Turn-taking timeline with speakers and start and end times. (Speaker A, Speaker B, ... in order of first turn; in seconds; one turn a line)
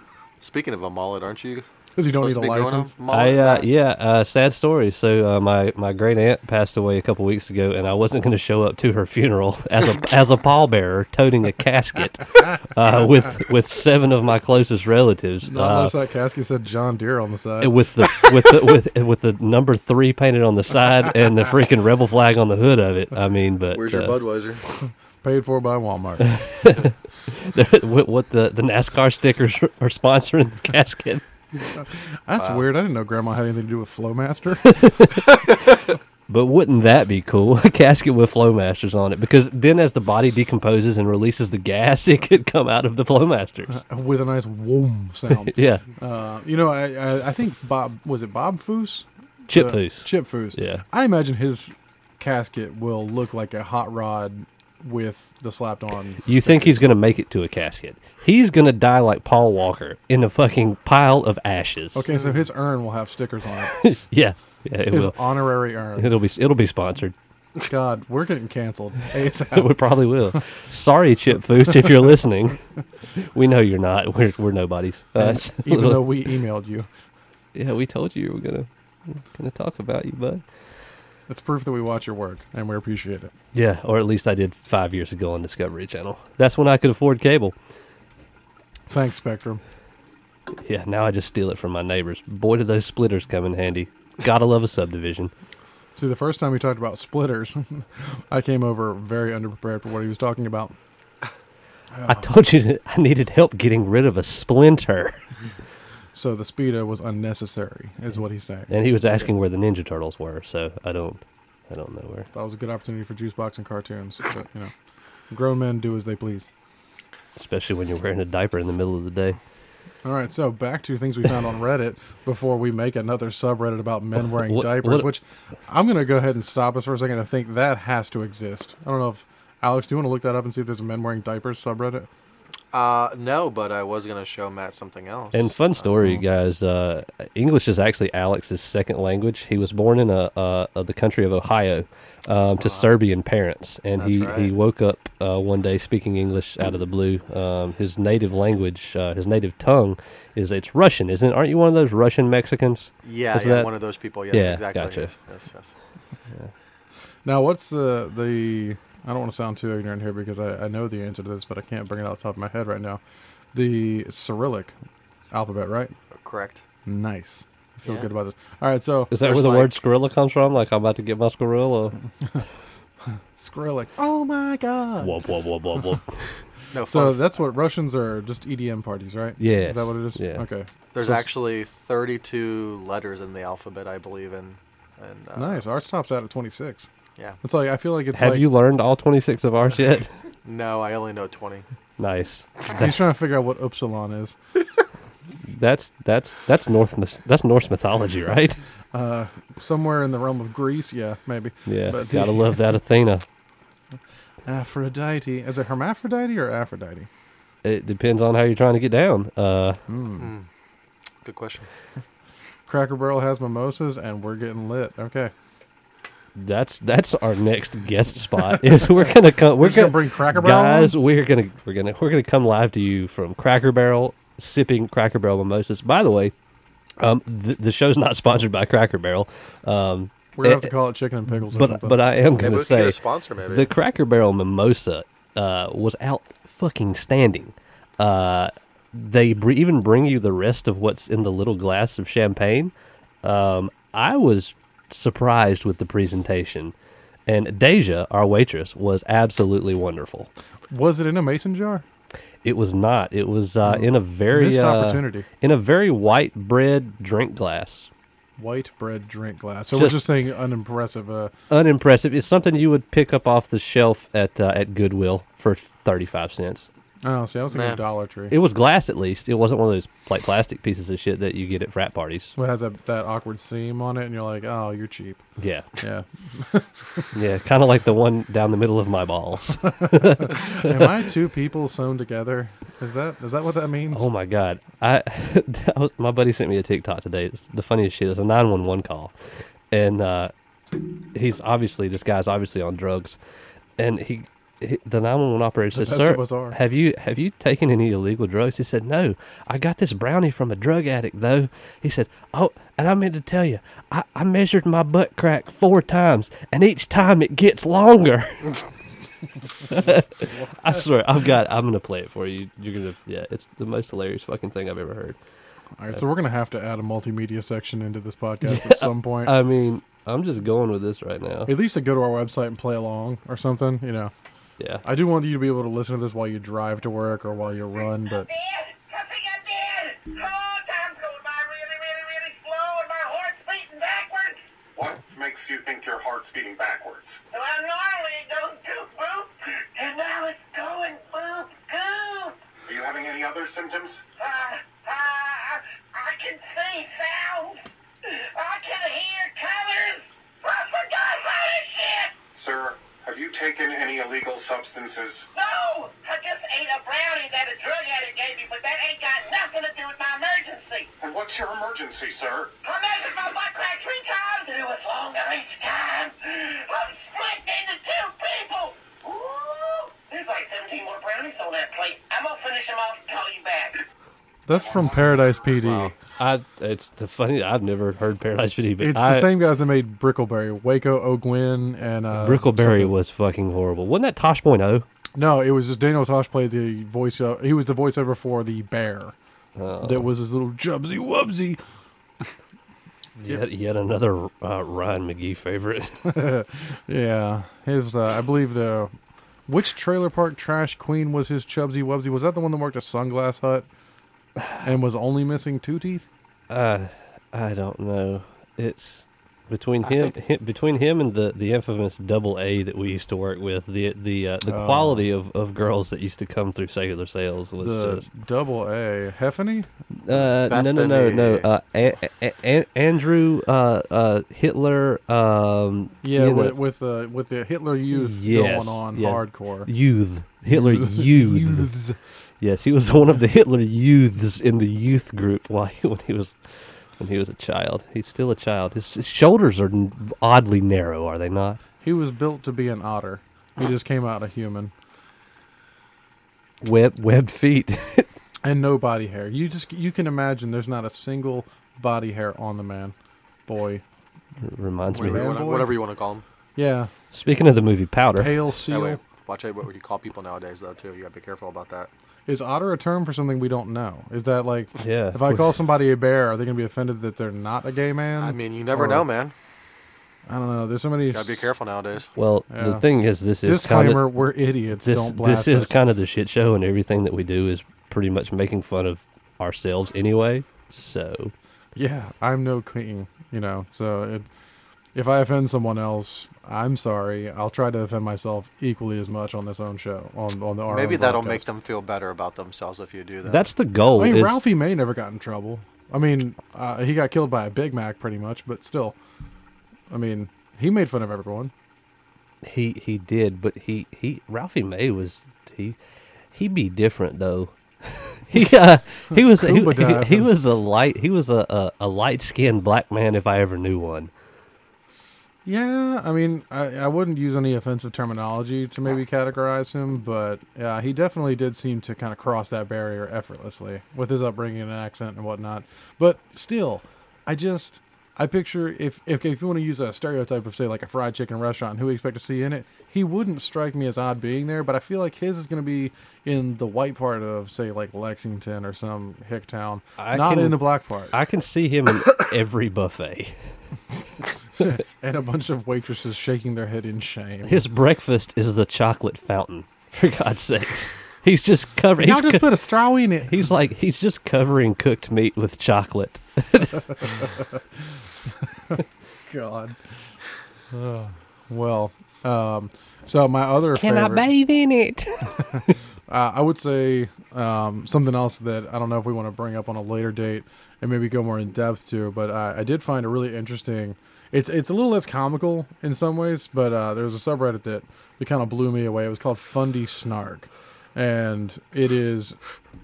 Speaker A: 0.4-3.7
Speaker B: 1.9-2.9
Speaker C: 3.1-15.9
Speaker B: 15.4-18.3
Speaker C: 17.6-24.1
Speaker A: 23.7-24.6
Speaker B: 25.2-26.4
Speaker C: 26.2-31.7
Speaker B: 32.3-35.2
Speaker C: 34.7-35.2
Speaker C: 36.3-43.8
Speaker B: 43.7-56.8
Speaker C: 45.3-45.8
Speaker C: 49.5-50.8
Speaker C: 56.2-62.1
Speaker B: 61.9-63.8
Speaker C: 63.7-65.2
Speaker B: 64.9-66.1
Speaker C: 66.0-67.1
Speaker B: 67.7-69.8
Speaker C: 69.5-72.6
Speaker C: 73.1-76.2
Speaker B: 75.2-76.9
Speaker C: 77.5-80.4
Speaker B: 81.3-83.3
Speaker C: 83.5-87.5
Speaker B: 88.9-89.6
Speaker C: 90.6-95.3
Speaker B: 96.0-100.8
Speaker B: 101.9-102.3
Speaker C: 102.1-105.2
Speaker B: 106.1-108.7
Speaker C: 108.7-112.3
Speaker B: 112.3-114.7
Speaker B: 115.3-116.5
Speaker C: 117.3-119.4
Speaker B: 120.0-132.1
Speaker C: 124.4-125.1
Speaker A: 132.7-135.9
Speaker C: 135.3-153.7
Speaker A: 142.6-142.9
Speaker A: 144.0-144.5
Speaker A: 153.0-155.7
Speaker C: 154.3-155.1
Speaker B: 157.2-163.0
Speaker B: 163.5-164.7
Speaker B: 165.3-165.9
Speaker A: 166.1-166.6
Speaker B: 166.8-169.2
Speaker C: 169.1-172.0
Speaker A: 169.2-169.7
Speaker B: 173.3-175.2
Speaker C: 175.0-176.3
Speaker A: 176.7-177.3
Speaker B: 176.8-181.3
Speaker C: 179.4-180.4
Speaker A: 180.9-185.6
Speaker B: 185.3-186.9
Speaker B: 187.4-188.4
Speaker C: 188.1-190.1
Speaker A: 190.4-191.6
Speaker C: 192.0-192.9
Speaker B: 192.7-194.4
Speaker C: 195.4-198.6
Speaker B: 198.9-202.6
Speaker C: 201.7-203.2
Speaker B: 204.4-207.1
Speaker C: 207.6-209.8
Speaker B: 209.9-210.3
Speaker A: 210.2-210.5
Speaker A: 211.2-211.7
Speaker B: 212.7-215.3
Speaker C: 216.3-226.3
Speaker B: 218.5-219.1
Speaker B: 219.6-220.9
Speaker C: 227.0-230.7
Speaker B: 230.4-232.0
Speaker C: 231.5-246.7
Speaker A: 232.3-233.7
Speaker C: 247.3-250.3
Speaker B: 250.7-251.8
Speaker C: 252.4-257.9
Speaker B: 253.6-255.2
Speaker B: 258.4-261.3
Speaker C: 259.7-260.0
Speaker C: 261.5-266.7
Speaker B: 267.0-268.3
Speaker A: 267.5-267.8
Speaker C: 268.3-272.3
Speaker B: 272.4-275.2
Speaker C: 275.4-275.7
Speaker B: 275.8-277.1
Speaker C: 277.1-280.9
Speaker B: 279.8-284.1
Speaker C: 283.9-289.1
Speaker C: 289.7-290.3
Speaker C: 291.1-293.2
Speaker C: 293.8-308.6
Speaker B: 295.7-296.6
Speaker C: 309.6-315.2
Speaker B: 315.8-319.3
Speaker C: 318.4-321.5
Speaker B: 321.5-324.1
Speaker C: 324.6-324.8
Speaker B: 324.8-328.3
Speaker D: 327.8-334.4
Speaker E: 334.8-337.2
Speaker D: 337.3-342.4
Speaker E: 342.7-344.0
Speaker D: 344.2-352.2
Speaker E: 352.3-355.3
Speaker D: 355.3-360.9
Speaker E: 361.0-362.5
Speaker D: 362.6-373.8
Speaker B: 374.5-375.9
Speaker C: 376.2-379.3
Speaker B: 378.8-382.9
Speaker C: 382.1-384.9
Speaker B: 385.2-389.1
Speaker C: 389.6-390.1
Speaker B: 389.8-391.6
Speaker C: 393.2-396.2
Speaker B: 396.1-398.9
Speaker B: 399.5-403.7
Speaker B: 404.6-406.1
Speaker C: 406.5-418.1
Speaker A: 409.9-410.1
Speaker B: 414.4-415.0
Speaker B: 417.6-419.7
Speaker C: 420.0-426.6
Speaker A: 420.4-421.5
Speaker B: 426.0-429.7
Speaker C: 427.9-431.7
Speaker B: 430.5-432.0
Speaker C: 432.4-436.4
Speaker C: 437.0-441.6
Speaker B: 441.8-444.7
Speaker C: 446.6-448.1
Speaker B: 448.4-452.9
Speaker B: 453.5-453.8
Speaker C: 454.4-455.3
Speaker B: 454.9-455.8
Speaker A: 455.0-456.2
Speaker B: 456.6-456.9
Speaker C: 457.1-458.4
Speaker B: 458.1-459.0
Speaker A: 458.7-461.9
Speaker B: 462.3-469.1
Speaker C: 464.8-465.5
Speaker A: 468.2-469.3
Speaker B: 470.3-471.5
Speaker A: 471.1-472.1
Speaker C: 472.2-474.1
Speaker B: 472.5-472.9
Speaker B: 473.4-475.8
Speaker C: 474.8-481.3
Speaker B: 481.8-484.2
Speaker B: 484.9-491.4
Speaker A: 490.7-493.5
Speaker C: 493.2-494.4
Speaker B: 493.9-499.0
Speaker B: 499.9-501.5
Speaker C: 502.4-505.8
Speaker C: 506.3-514.1
Speaker B: 509.1-510.3
Speaker B: 515.4-541.1
Speaker C: 540.0-543.4
Speaker B: 544.6-547.6
Speaker C: 547.4-552.4
Speaker B: 552.0-553.4
Speaker C: 553.2-557.1
Speaker B: 558.7-559.8
Speaker B: 560.7-564.3
Speaker C: 563.7-565.7
Speaker B: 566.1-582.4